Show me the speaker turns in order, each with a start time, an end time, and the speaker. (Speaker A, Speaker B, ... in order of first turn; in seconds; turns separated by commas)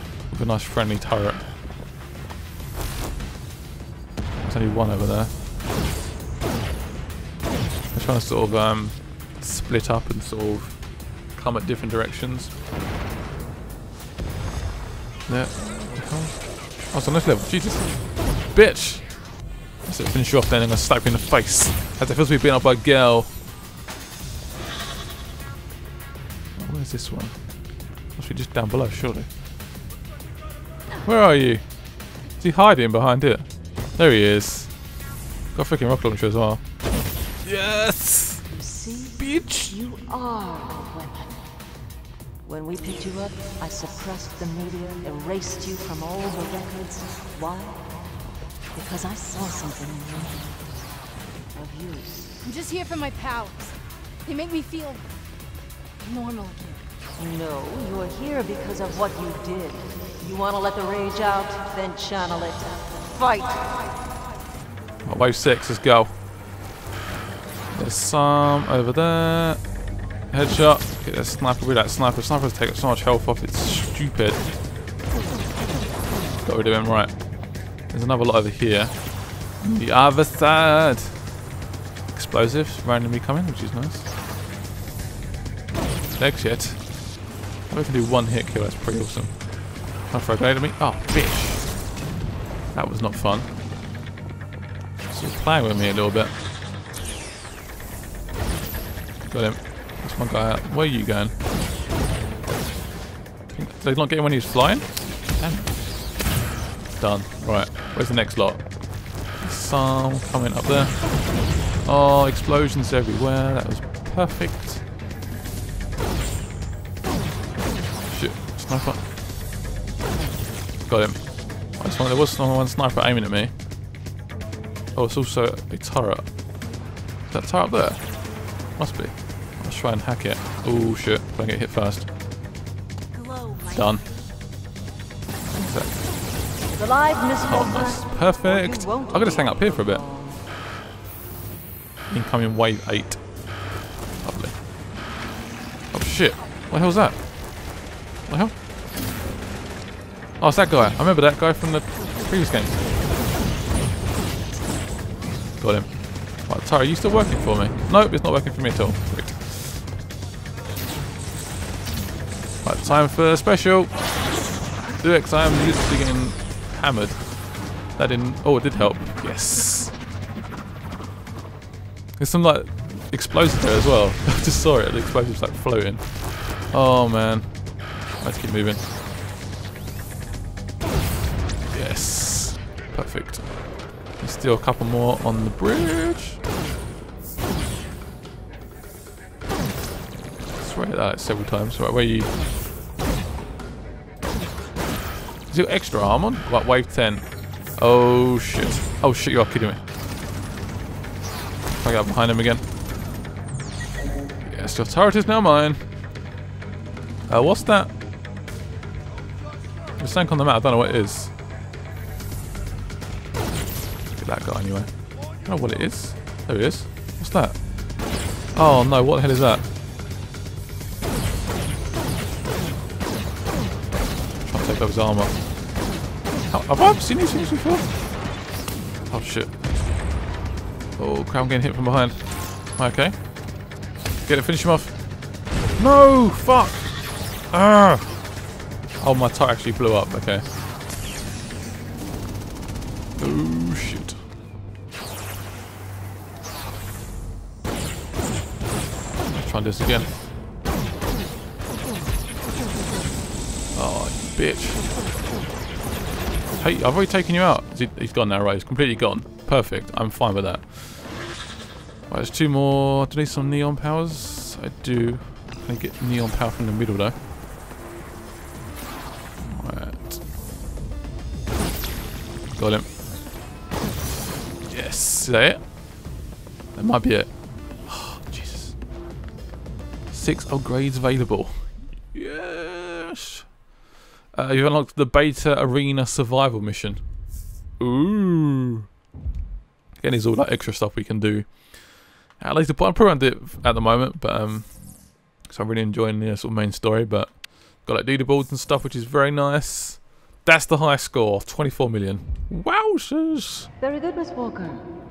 Speaker A: 0.3-1.5, Speaker A: 4.4-5.3, Speaker A: 7.9-10.8, Speaker A: 11.3-12.5, Speaker A: 15.3-18.0, Speaker A: 18.5-19.2, Speaker A: 19.9-23.3, Speaker A: 26.6-27.4, Speaker A: 28.2-29.3, Speaker A: 31.0-31.6, Speaker A: 32.4-33.5, Speaker A: 34.0-34.7, Speaker A: 35.5-36.6, Speaker A: 37.4-38.4, Speaker B: 38.5-41.5, Speaker A: 39.2-39.8, Speaker B: 42.4-47.8, Speaker B: 48.7-50.6, Speaker B: 51.5-52.3, Speaker C: 52.4-55.1, Speaker C: 56.0-56.8, Speaker B: 57.2-63.9, Speaker A: 65.0-66.2, Speaker A: 67.7-69.6, Speaker A: 70.3-74.4, Speaker A: 76.4-77.2, Speaker A: 77.9-79.0, Speaker A: 79.6-81.3, Speaker A: 82.1-84.1, Speaker A: 86.2-86.9, Speaker A: 87.7-89.5, Speaker A: 90.0-91.7, Speaker A: 92.7-93.5, Speaker A: 95.1-96.3, Speaker A: 99.3-101.3, Speaker A: 103.5-105.8, Speaker A: 107.0-108.7, Speaker A: 109.3-111.0, Speaker A: 111.8-114.8, Speaker A: 118.1-119.0, Speaker A: 120.9-123.5, Speaker A: 125.0-126.2, Speaker A: 127.3-128.0, Speaker A: 128.8-132.1, Speaker C: 133.1-134.2, Speaker A: 133.7-134.0, Speaker A: 135.5-136.0, Speaker B: 136.8-140.5, Speaker A: 137.4-140.0, Speaker A: 142.1-143.2, Speaker A: 144.2-144.6, Speaker A: 145.9-147.2, Speaker A: 148.3-148.5, Speaker A: 150.4-152.8, Speaker A: 155.6-159.4, Speaker A: 162.6-163.9, Speaker A: 165.0-167.2, Speaker A: 167.9-169.9, Speaker A: 172.2-176.1, Speaker A: 176.7-177.5, Speaker A: 178.2-178.8, Speaker A: 181.7-183.6, Speaker A: 184.2-186.4, Speaker A: 190.6-192.3, Speaker A: 195.5-197.2, Speaker A: 197.8-199.8, Speaker A: 201.7-202.6, Speaker A: 204.4-205.8, Speaker A: 207.3-207.9, Speaker A: 210.0-211.3, Speaker A: 214.1-217.6, Speaker A: 218.6-219.7, Speaker A: 224.4-225.3, Speaker A: 226.5-227.9, Speaker A: 229.1-229.5, Speaker A: 231.0-233.2, Speaker A: 234.2-235.0, Speaker A: 235.8-236.9, Speaker A: 237.5-238.1, Speaker A: 239.0-240.5, Speaker A: 243.2-244.2, Speaker A: 249.3-250.1, Speaker A: 253.7-254.9, Speaker A: 256.6-261.1, Speaker A: 262.1-267.1, Speaker A: 269.4-270.2, Speaker A: 272.6-272.9, Speaker A: 274.7-275.6, Speaker A: 276.8-277.3, Speaker A: 277.9-278.8, Speaker A: 280.1-283.5, Speaker A: 284.3-287.0, Speaker A: 287.8-288.9, Speaker A: 290.0-291.8, Speaker A: 292.4-294.8, Speaker A: 295.5-303.7, Speaker B: 303.8-304.8